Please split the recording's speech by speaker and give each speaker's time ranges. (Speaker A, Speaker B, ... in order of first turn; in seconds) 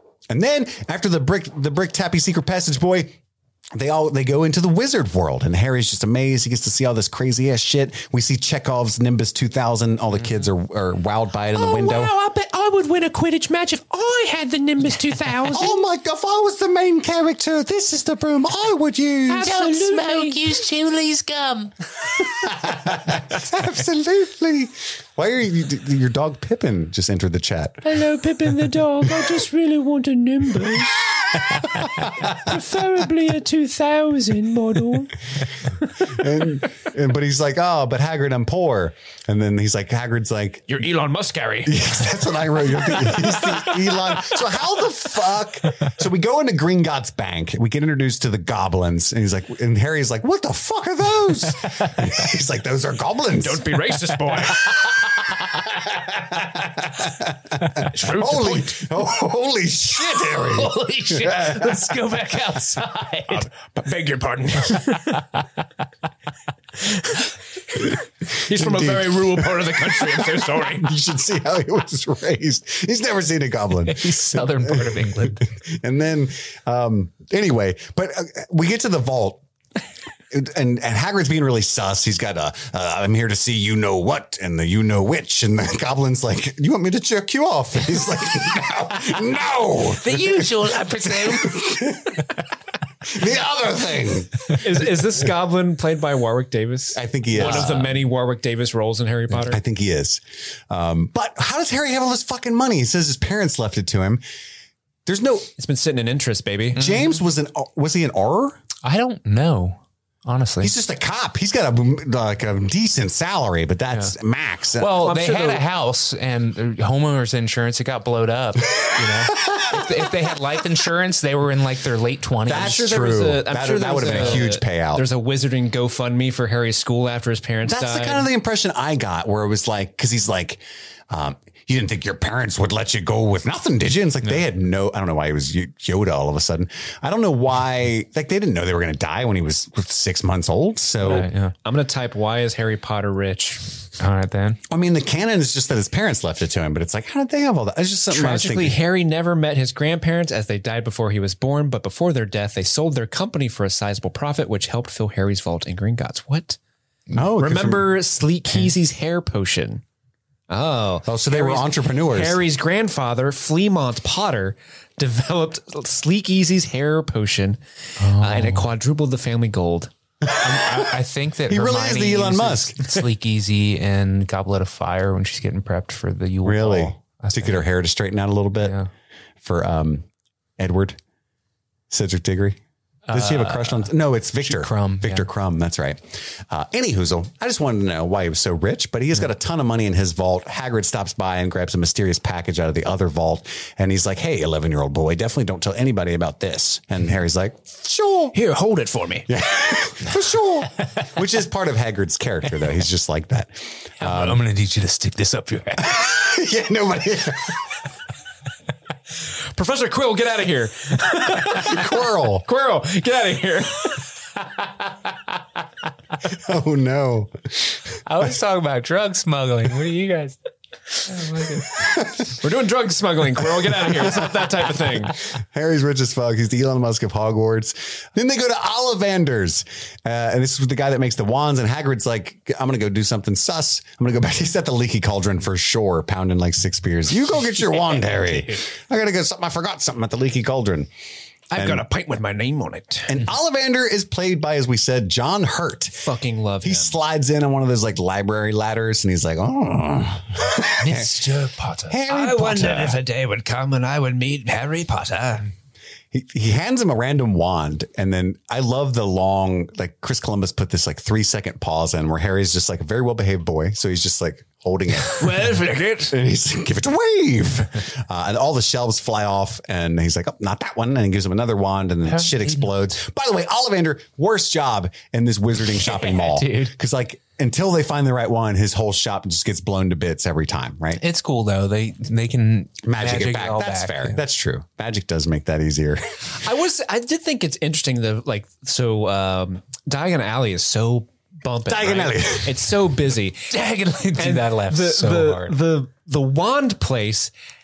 Speaker A: 0.3-3.2, 3.7-12.1, 15.5-19.5, 22.4-27.8, 31.5-32.4, 36.0-40.7, 41.6-53.8, 56.0-61.9, 68.5-74.7, 75.3-79.4, 80.3-90.5, 91.1-92.2, 93.0-95.0, 96.9-97.9, 99.4-104.2, 105.0-105.5, 106.7-108.6, 110.6-115.0, 119.3-119.9, 122.5-125.0, 127.6-141.3, 144.7-148.8, 157.1-157.9, 161.1-162.4, 170.2-170.9, 171.5-172.8, 176.4-178.8, 179.4-180.0, 180.6-181.0, 181.9-182.6, 183.1-198.3, 199.3-204.4, 205.8-207.6, 211.5-212.4, 216.3-217.8, 221.8-222.3, 225.3-240.9, 241.5-241.8, 243.1-246.1, 246.6-251.2, 251.9-253.0, 256.1-281.0, 282.8-286.4, 291.6-292.8
Speaker B: 11.5-15.8, 19.3-20.5, 27.8-35.2, 40.7-42.1, 42.6-44.3, 53.4-54.9, 57.8-58.8, 63.4-65.2, 66.8-70.9, 94.5-99.6, 105.6-106.8, 114.9-115.6, 122.5-128.3, 141.6-143.9, 148.1-156.6, 157.4-159.8, 160.5-169.9, 198.3-199.3, 209.5-214.0, 222.3-225.2, 241.5-243.2, 246.0-246.9, 252.1-255.5, 265.1-266.1, 286.4-293.6, 294.1-297.3
Speaker C: 19.4-21.8, 60.0-63.5, 73.8-75.4, 89.8-92.2, 97.4-97.9, 106.8-107.2, 108.8-110.8, 114.8-122.8, 124.1-124.4, 141.0-141.5, 144.0-144.6, 168.0-168.7, 170.4-177.6, 183.1-185.3, 204.0-206.0, 218.1-220.4, 221.0-221.7, 250.8-252.0, 272.0-272.7, 275.9-276.7, 281.0-284.2, 293.5-295.6